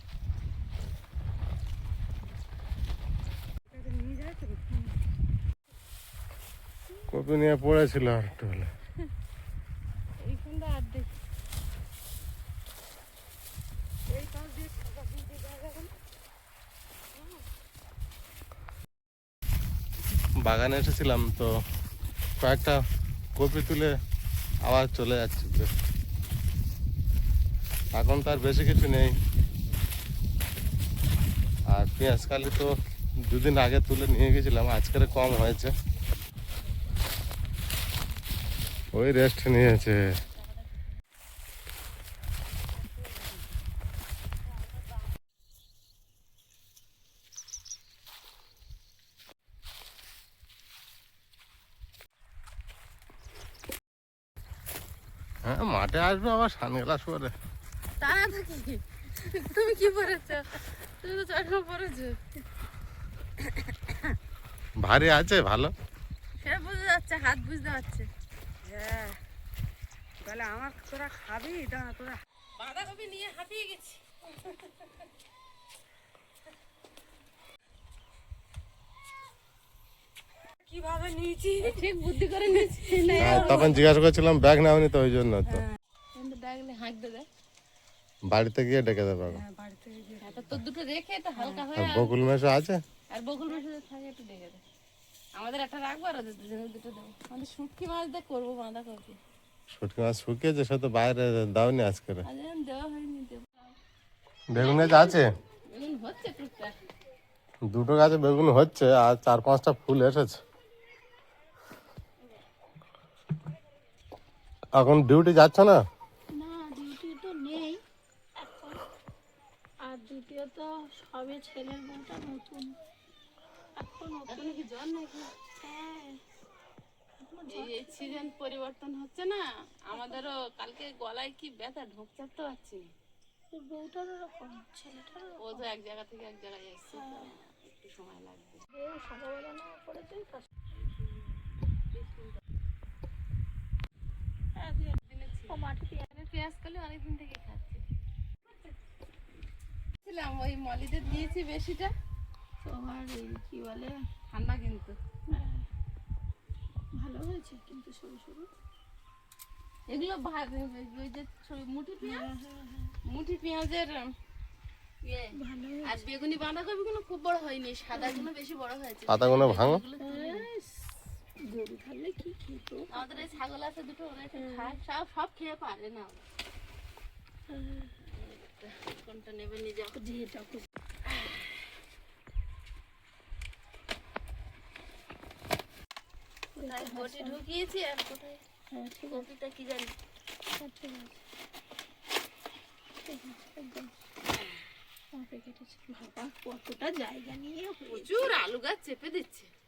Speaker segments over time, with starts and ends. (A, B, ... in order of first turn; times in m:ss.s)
0:03.7-0:04.7 A
0:07.1-0:08.7 B
0:10.2-0:11.1 C
0:14.1-0:15.9 A
0:17.2-0:17.4 C
0:20.4-0:21.5 B
0:22.4-0:22.8 B
0:23.4-0:23.9 B
0:24.6-0:25.7 B
0:27.9-0:29.2 B
0:31.7-0:32.7 B
0:33.3-0:35.7 B
0:38.9-0:40.2 B
0:42.9-0:43.6 A
0:55.4-0:57.3 B
0:58.0-1:02.2 C
1:04.8-1:05.7 B
1:06.4-1:08.1 C
1:08.6-1:09.2 A
1:10.2-1:12.2 A
1:12.6-1:14.0 C
1:20.7-1:21.9 A
1:21.6-1:23.8 C
1:22.4-1:23.8 A
1:23.2-1:25.6 B
1:26.2-1:27.3 C
1:28.3-1:29.4 B
1:29.2-1:30.6 A
1:30.2-1:32.2 C
1:31.4-1:31.6 A
1:31.8-1:32.8 B
1:33.1-1:34.6 C
1:35.4-1:39.2 C
1:39.7-1:42.3 B
1:42.2-1:43.7 C
1:44.5-1:45.2 B
1:44.6-1:46.8 C
1:47.7-1:50.4 B
1:54.8-1:55.8 B
1:56.3-1:57.8 D
1:58.4-1:58.8 D
1:59.8-2:02.8 D
2:03.8-2:04.6 D
2:04.2-2:05.3 C
2:05.6-2:06.2 D
2:07.2-2:08.3 D
2:07.5-2:12.9 C
2:09.9-2:10.2 D
2:13.5-2:15.7 D
2:15.4-2:18.6 C
2:16.9-2:17.3 D
2:18.7-2:20.5 D
2:20.8-2:21.3 C
2:21.9-2:22.4 C
2:24.6-2:26.1 D
2:25.0-2:27.8 C
2:30.0-2:31.9 C
2:32.6-2:34.0 D
2:34.3-2:35.0 C
2:35.3-2:35.6 D
2:36.9-2:38.5 D
2:39.9-2:42.3 C
2:42.0-2:43.0 D
2:43.0-2:44.1 C
2:45.0-2:50.5 C
2:45.3-2:46.0 D
2:47.9-2:48.3 D
2:49.1-2:49.8 B
2:50.0-2:50.9 D
2:51.4-2:53.3 D
2:52.9-2:56.2 C
2:54.3-2:54.8 D
2:57.5-2:57.9 D
2:58.1-3:00.0 C
2:59.9-3:00.7 D
3:01.1-3:01.4 C
3:06.6-3:07.4 D
3:06.6-3:08.4 C
3:08.7-3:09.3 D
3:09.1-3:09.9 C
3:10.6-3:11.2 D
3:13.0-3:13.9 D
3:15.1-3:18.4 D
3:17.9-3:19.5 C